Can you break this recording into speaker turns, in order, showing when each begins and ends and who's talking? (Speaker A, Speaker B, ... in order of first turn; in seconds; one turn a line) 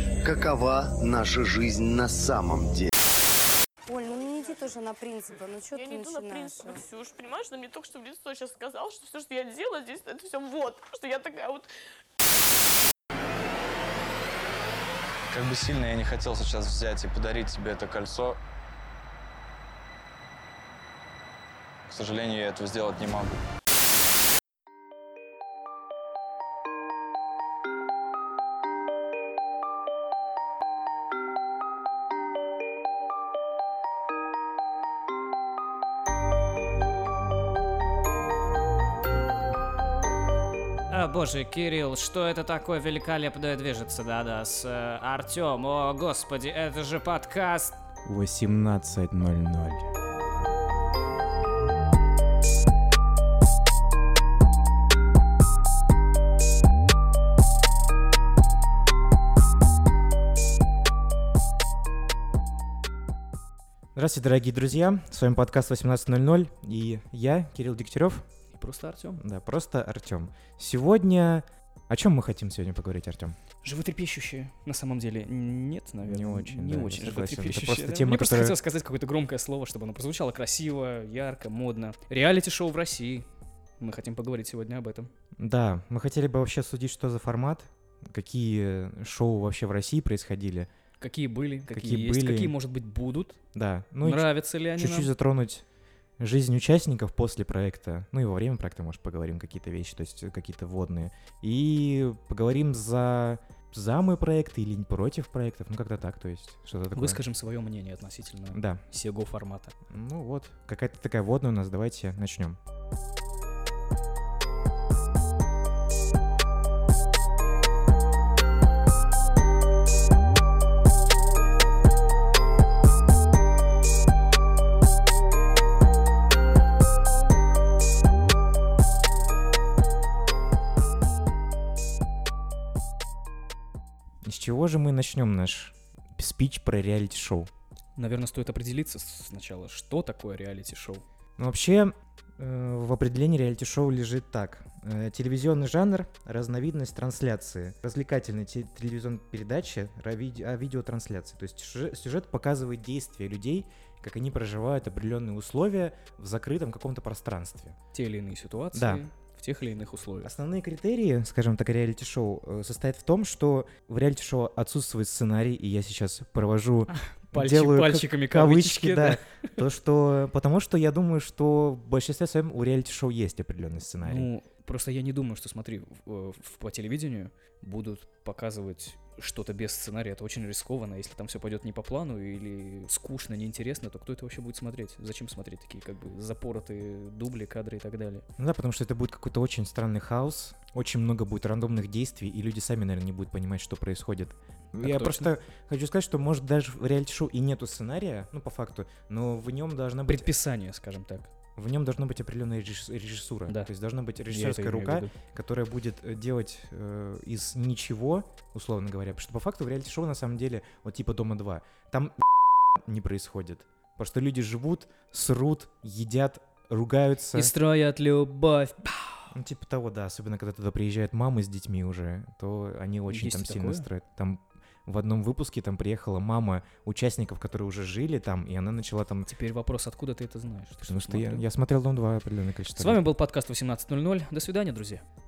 Speaker A: 0.2-2.9
Speaker B: 3.9-6.8
Speaker C: 5.7-11.7
Speaker D: 15.3-18.4
Speaker D: 21.9-23.3
Speaker E: 40.9-47.8
Speaker F: 48.0-49.9
Speaker F: 63.9-68.3
Speaker G: 68.5-69.2
Speaker F: 69.2-73.4
Speaker G: 73.6-83.3
Speaker F: 76.0-78.6
Speaker G: 83.8-85.1
Speaker F: 85.4-90.7
Speaker G: 91.0-93.4
Speaker F: 91.7-92.5
Speaker F: 93.5-95.6
Speaker G: 94.0-95.1
Speaker F: 96.2-107.2
Speaker G: 106.9-109.8
Speaker F: 108.5-108.8
Speaker F: 109.9-112.6
Speaker F: 134.2-137.5
Speaker G: 138.0-141.0
Speaker F: 141.4-157.8
Speaker G: 157.9-160.3
Speaker F: 158.7-159.0
Speaker F: 160.2-174.3
Speaker G: 167.0-169.5
Speaker G: 174.0-188.2
Speaker F: 188.4-200.3
Speaker G: 194.8-195.3
Speaker G: 200.1-201.3
Speaker F: 201.6-217.5
Speaker G: 204.2-205.1
Speaker G: 217.3-219.3
Speaker F: 219.3-229.3
Speaker G: 223.1-223.9
Speaker G: 229.3-231.4
Speaker F: 230.8-233.0
Speaker G: 232.8-235.0